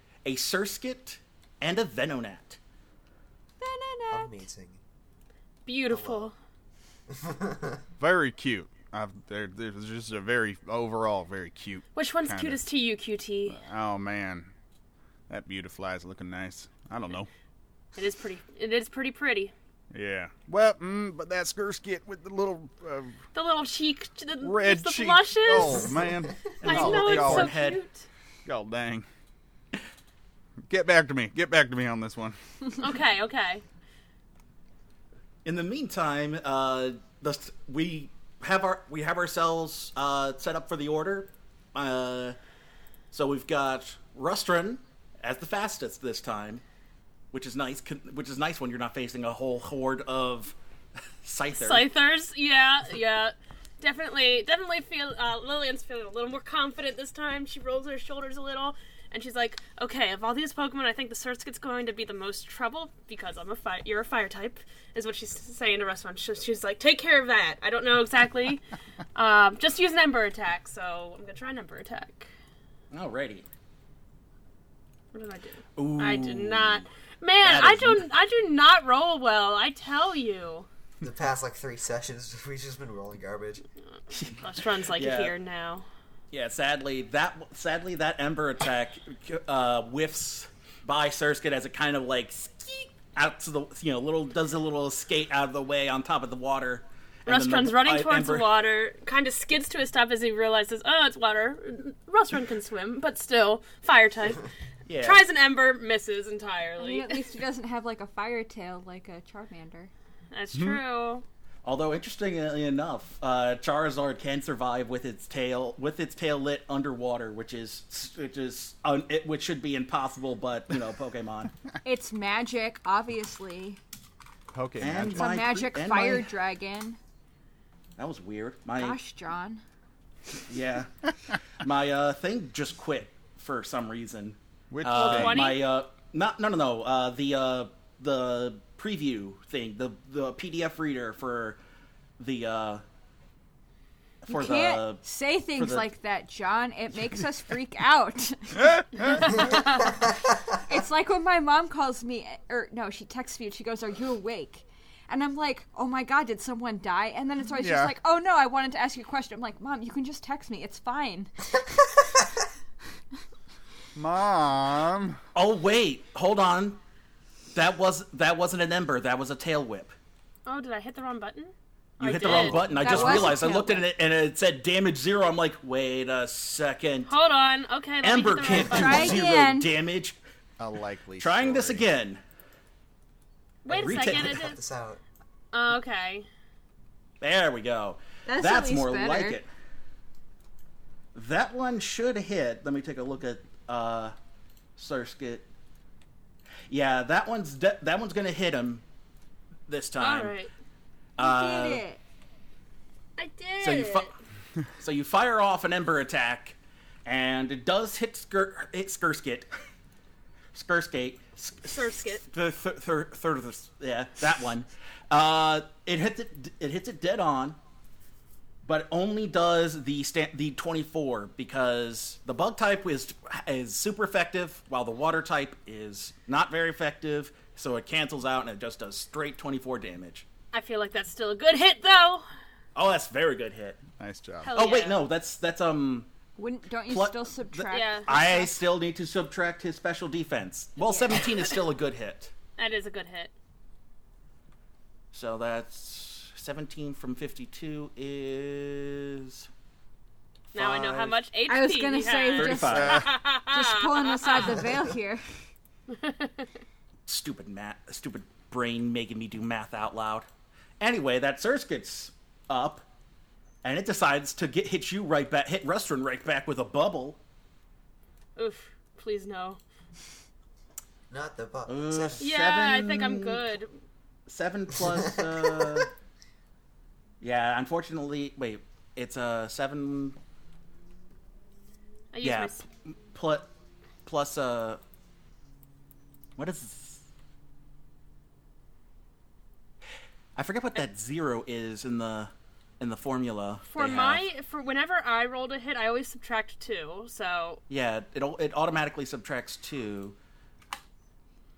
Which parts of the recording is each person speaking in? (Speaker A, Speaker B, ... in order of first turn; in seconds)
Speaker A: 0.2-2.6, 26.6-27.8, 35.4-42.4, 43.1-46.6, 47.3-50.5, 51.2-51.9, 72.9-73.5, 75.8-76.9, 77.4-78.0, 84.1-85.3, 86.3-98.5, 104.9-105.2, 111.6-121.5, 124.8-126.3, 128.0-129.0, 130.5-130.9, 131.6-141.6, 142.2-142.8, 144.2-145.0, 145.6-145.8, 165.3-166.8, 167.5-169.9, 172.0-177.1, 178.0-180.2, 181.2-182.2, 183.7-184.5, 187.2-189.5, 191.1-194.1, 194.8-195.4, 196.7-198.8, 199.7-200.3, 201.2-201.8, 203.6-204.1, 204.8-209.5, 210.5-217.6, 218.6-230.2, 232.7-233.8, 234.5-236.1, 236.8-242.3, 245.1-249.5, 250.5-251.2, 252.4-253.1, 257.1-260.3, 260.8-262.8, 263.6-267.2, 271.7-273.4, 274.3-275.9, 277.2-280.2, 282.2-283.5, 284.0-284.8, 286.4-287.0, 290.4-294.2, 297.7-300.1
Speaker B: 3.6-4.4, 106.8-109.9, 121.8-123.8, 125.1-127.0, 128.8-129.6, 144.3-149.9, 150.6-161.6, 172.2-173.8, 178.5-179.7, 188.2-189.4, 201.2-202.0, 236.4-238.5, 240.8-241.2, 251.5-255.2
Speaker C: 4.1-4.8, 5.9-6.3, 7.1-7.8, 81.0-83.6, 183.7-185.0, 271.1-272.2, 275.1-275.9
Speaker D: 5.7-6.3, 11.9-13.6, 17.9-19.5, 23.3-25.9, 26.6-28.0, 32.8-33.6, 51.5-72.3, 75.1-80.7, 84.3-85.8, 97.3-104.5, 105.0-107.2, 110.3-111.2, 134.9-135.7, 149.2-149.6, 170.4-173.3, 177.1-179.2, 183.6-184.6, 185.5-186.3, 200.0-200.5, 203.2-204.1, 211.7-212.2, 230.5-232.2, 234.4-235.0, 237.7-238.5, 242.6-243.3, 250.5-254.5, 255.9-256.5, 268.4-269.6, 272.2-273.7, 282.1-282.6, 293.7-297.6
Speaker E: 8.0-12.6, 13.5-14.5, 15.3-17.3, 19.9-23.2, 24.4-27.6, 28.4-29.1, 30.7-32.4, 110.5-110.8, 124.5-125.4, 134.7-135.5, 148.6-149.2, 157.6-157.9, 163.9-165.2, 180.6-181.8, 234.0-234.6, 252.7-253.1